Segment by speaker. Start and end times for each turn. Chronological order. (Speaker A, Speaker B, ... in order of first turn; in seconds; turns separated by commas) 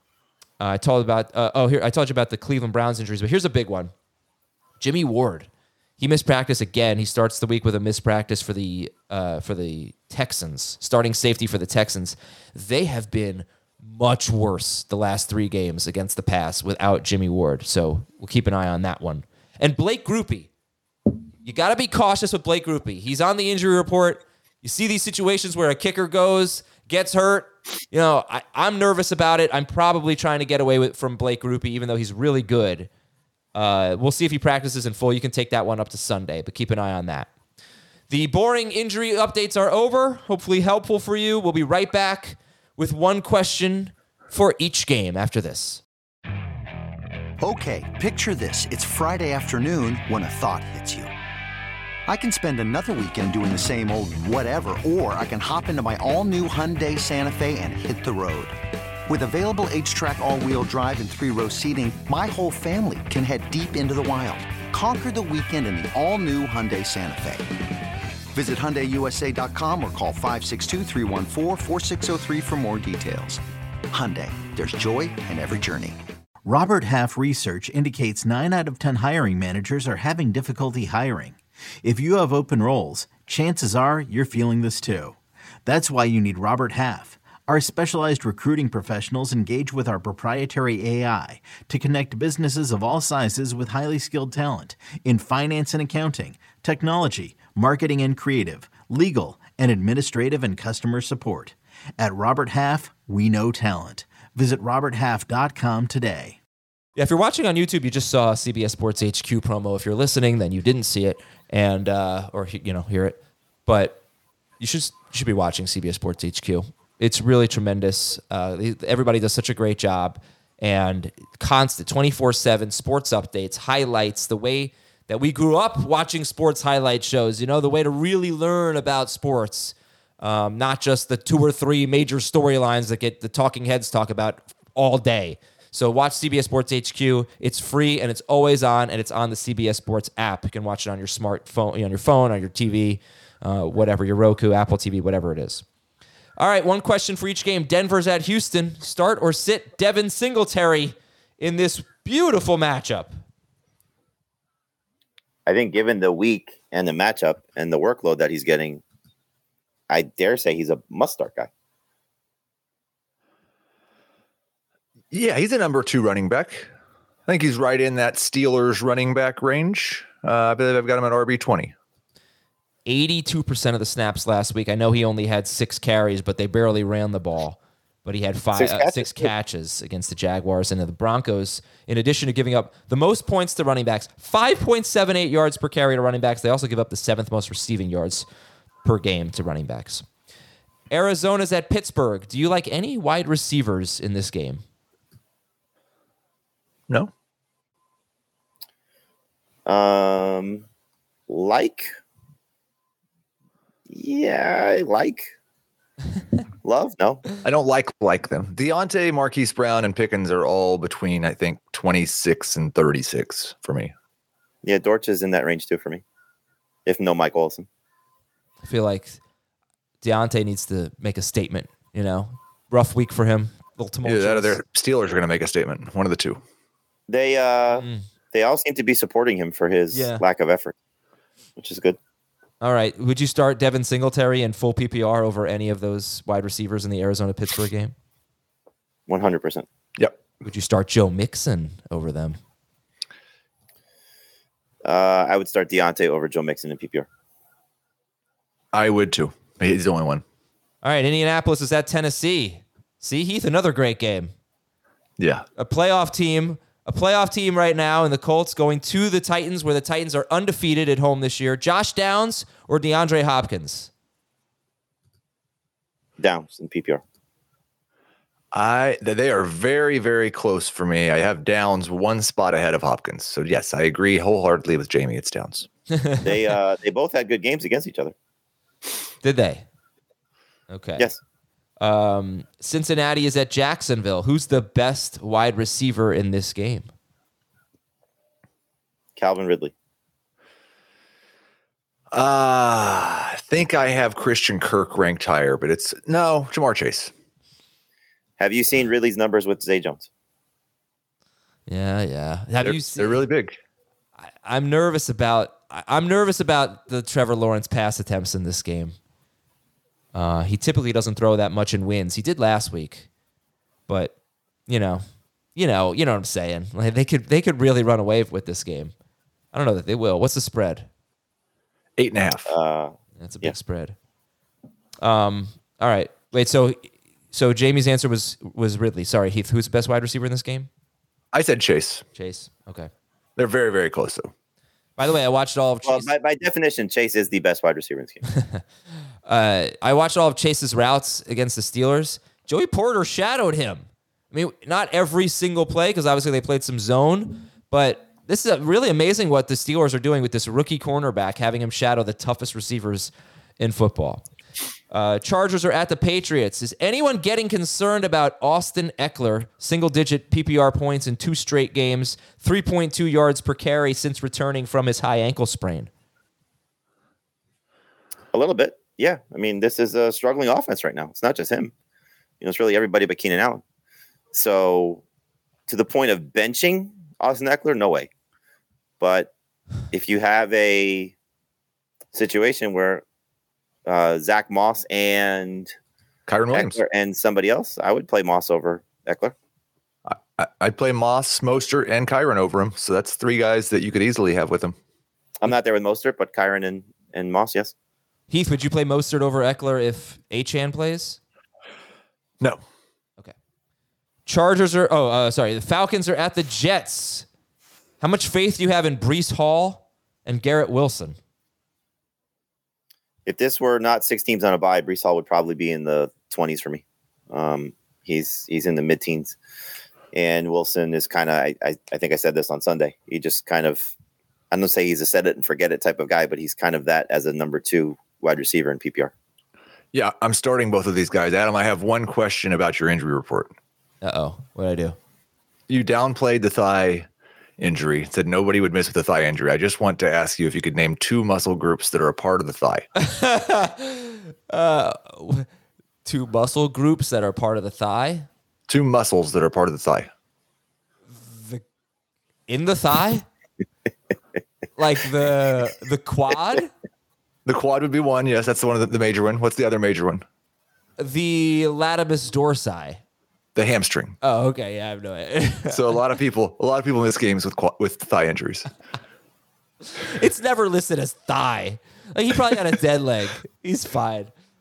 Speaker A: 0.6-3.9, Speaker A: 4.8-5.5, Speaker A: 6.0-20.5, Speaker A: 21.4-32.9, Speaker A: 33.5-37.3, Speaker A: 38.1-45.8, Speaker B: 47.4-51.1, Speaker B: 52.1-58.5, Speaker B: 59.1-67.5, Speaker B: 68.3-76.0, Speaker C: 76.4-106.4, Speaker A: 107.0-114.0, Speaker A: 114.6-145.6, Speaker A: 146.4-153.2, Speaker D: 155.4-158.8, Speaker D: 159.9-161.5, Speaker E: 165.1-166.7, Speaker E: 167.3-171.7, Speaker A: 172.8-188.2, Speaker D: 178.5-179.3, Speaker A: 188.8-190.1, Speaker A: 190.9-194.6, Speaker D: 199.7-200.6, Speaker D: 201.3-201.9, Speaker D: 203.9-205.3, Speaker D: 206.6-207.2, Speaker E: 207.4-213.9, Speaker D: 214.6-216.0, Speaker D: 216.8-217.7, Speaker A: 218.6-219.2, Speaker A: 220.0-224.6, Speaker E: 224.0-226.4, Speaker D: 227.1-230.7, Speaker A: 227.8-228.0, Speaker A: 229.9-230.2, Speaker D: 231.6-232.0, Speaker A: 232.6-237.9, Speaker D: 239.1-239.7, Speaker A: 240.4-242.4, Speaker D: 244.8-247.1, Speaker E: 248.7-250.2, Speaker A: 250.8-254.3, Speaker E: 255.2-255.4, Speaker A: 255.6-263.9, Speaker D: 266.2-267.0, Speaker E: 268.5-275.7, Speaker A: 275.9-276.3, Speaker D: 276.2-278.1, Speaker A: 279.2-279.6, Speaker A: 280.7-281.1, Speaker A: 281.8-286.9, Speaker D: 289.2-289.7, Speaker E: 292.1-297.1, Speaker D: 298.4-300.1, Speaker A: 301.7-303.2, Speaker E: 302.6-303.6, Speaker A: 304.3-308.9, Speaker A: 310.1-313.1, Speaker A: 313.9-314.1, Speaker A: 314.7-318.9, Speaker A: 319.5-320.9, Speaker E: 322.0-322.5, Speaker D: 322.5-323.5, Speaker A: 323.2-323.9, Speaker A: 325.0-330.7, Speaker E: 331.3-332.0, Speaker A: 332.1-332.9, Speaker E: 333.4-334.3, Speaker A: 335.0-336.1, Speaker D: 335.8-338.2, Speaker A: 338.3-338.6, Speaker A: 339.2-354.2, Speaker A: 354.9-365.9, Speaker D: 368.3-371.7, Speaker D: 372.4-373.6, Speaker D: 374.3-375.0, Speaker D: 375.7-378.1, Speaker D: 379.0-379.3, Speaker D: 379.9-381.1, Speaker D: 382.1-383.0, Speaker D: 383.9-385.7, Speaker E: 386.3-386.8, Speaker D: 386.5-389.3, Speaker E: 390.1-394.8, Speaker D: 395.4-397.7, Speaker A: 398.3-401.2, Speaker A: 404.2-407.3, Speaker A: 408.0-411.2, Speaker D: 413.2-419.4, Speaker D: 420.1-423.9, Speaker D: 424.5-429.1, Speaker E: 429.9-433.5, Speaker A: 434.0-434.9, Speaker E: 435.7-437.1, Speaker E: 437.6-442.9, Speaker A: 443.0-445.5, Speaker A: 446.0-448.3, Speaker E: 448.7-450.1, Speaker A: 451.1-451.6, Speaker A: 452.5-453.2, Speaker A: 454.8-456.7, Speaker E: 457.4-460.2, Speaker A: 461.0-463.0, Speaker E: 463.6-464.2, Speaker A: 464.2-466.0, Speaker E: 465.7-468.7, Speaker A: 470.0-474.3